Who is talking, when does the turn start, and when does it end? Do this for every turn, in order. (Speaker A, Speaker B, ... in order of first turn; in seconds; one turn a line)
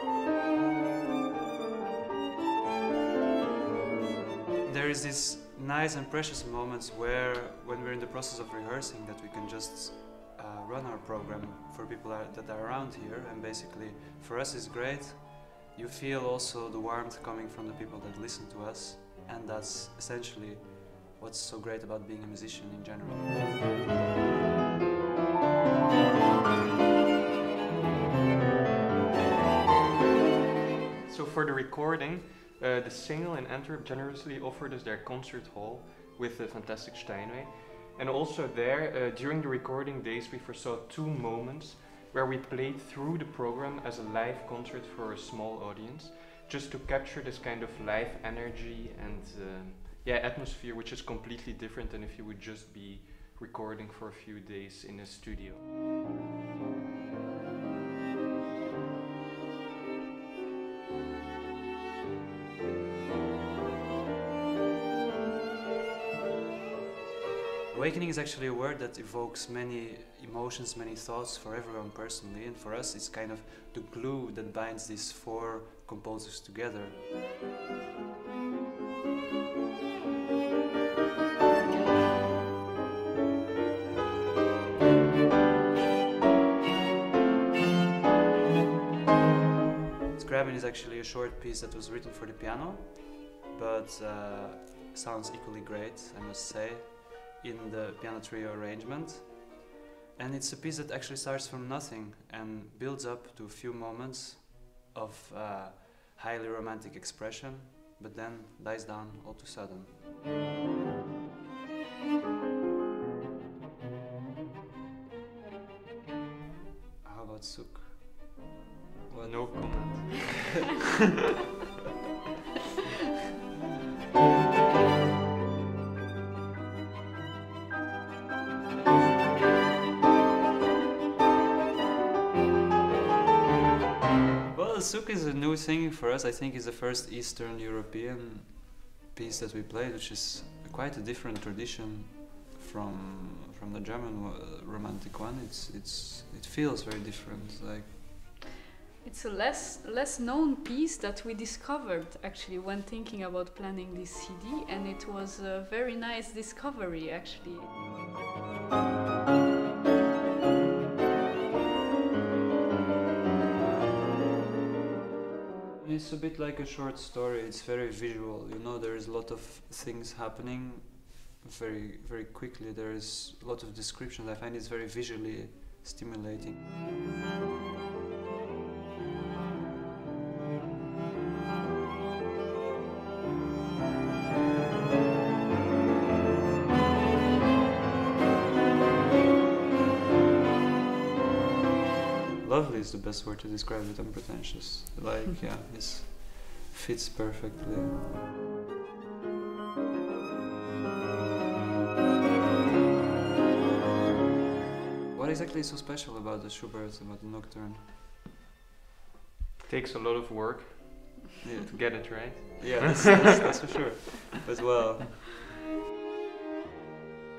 Speaker A: 4.6-23.3
Speaker B: 31.1-55.6
Speaker A: 67.7-77.0
Speaker A: 90.2-99.5
Speaker A: 100.2-109.9
Speaker A: 117.0-118.2
Speaker A: 119.1-120.3
Speaker B: 119.2-120.7
Speaker A: 134.5-148.0
Speaker C: 149.0-157.8
Speaker A: 165.8-176.6
Speaker A: 192.4-198.0
Speaker A: 205.1-207.8
Speaker B: 209.7-213.3
Speaker A: 211.4-215.5